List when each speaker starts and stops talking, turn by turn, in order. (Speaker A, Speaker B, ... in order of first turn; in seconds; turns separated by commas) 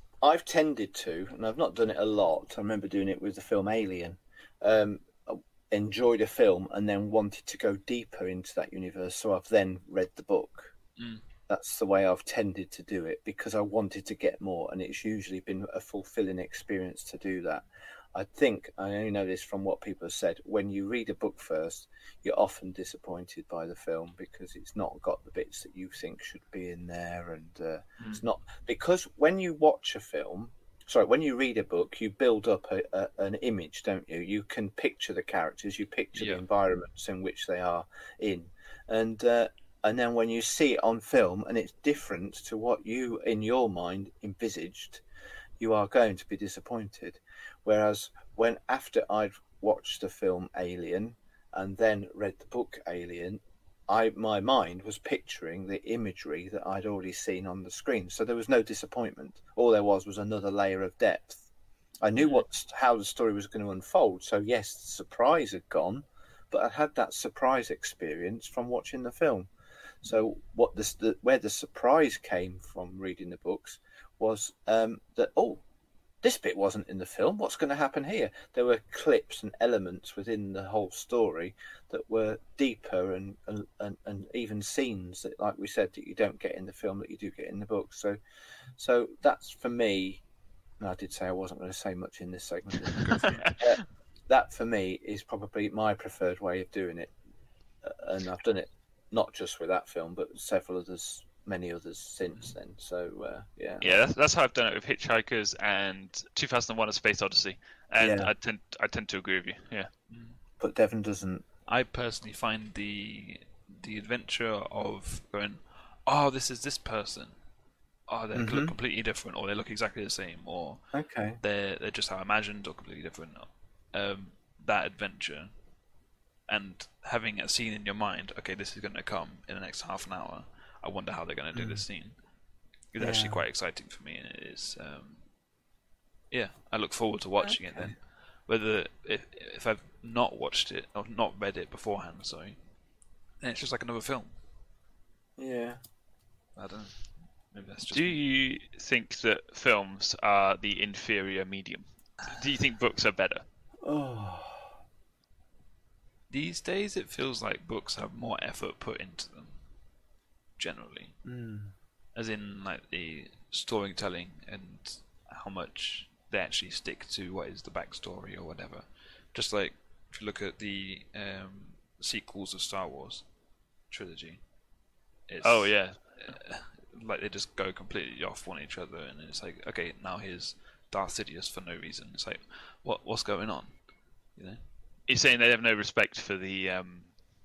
Speaker A: 0.2-10.7, Speaker B: 11.0-11.2, Speaker A: 11.5-45.0, Speaker B: 36.1-36.4, Speaker A: 45.6-61.5, Speaker A: 62.0-69.5, Speaker C: 62.2-62.4, Speaker A: 70.0-75.6, Speaker A: 76.2-88.2, Speaker A: 88.8-90.2, Speaker A: 90.8-97.1, Speaker C: 93.1-93.5, Speaker A: 97.8-104.0, Speaker C: 103.8-109.9, Speaker A: 108.0-108.3, Speaker B: 110.1-110.4, Speaker A: 110.6-111.4, Speaker B: 111.7-117.3, Speaker B: 118.1-120.8, Speaker A: 118.3-118.7, Speaker A: 120.9-121.4, Speaker B: 121.4-125.5, Speaker B: 126.5-132.1, Speaker A: 131.5-131.8, Speaker B: 132.9-135.2, Speaker A: 133.0-133.4, Speaker B: 136.3-142.6, Speaker A: 137.4-137.9, Speaker B: 143.4-144.3, Speaker A: 145.4-145.8, Speaker B: 146.5-148.2, Speaker C: 147.9-153.4, Speaker A: 153.8-154.7, Speaker B: 156.3-159.5, Speaker B: 160.6-161.1, Speaker A: 161.2-161.7, Speaker B: 162.1-173.2, Speaker B: 173.9-174.4, Speaker B: 175.3-184.6, Speaker C: 175.4-176.1, Speaker C: 185.1-187.2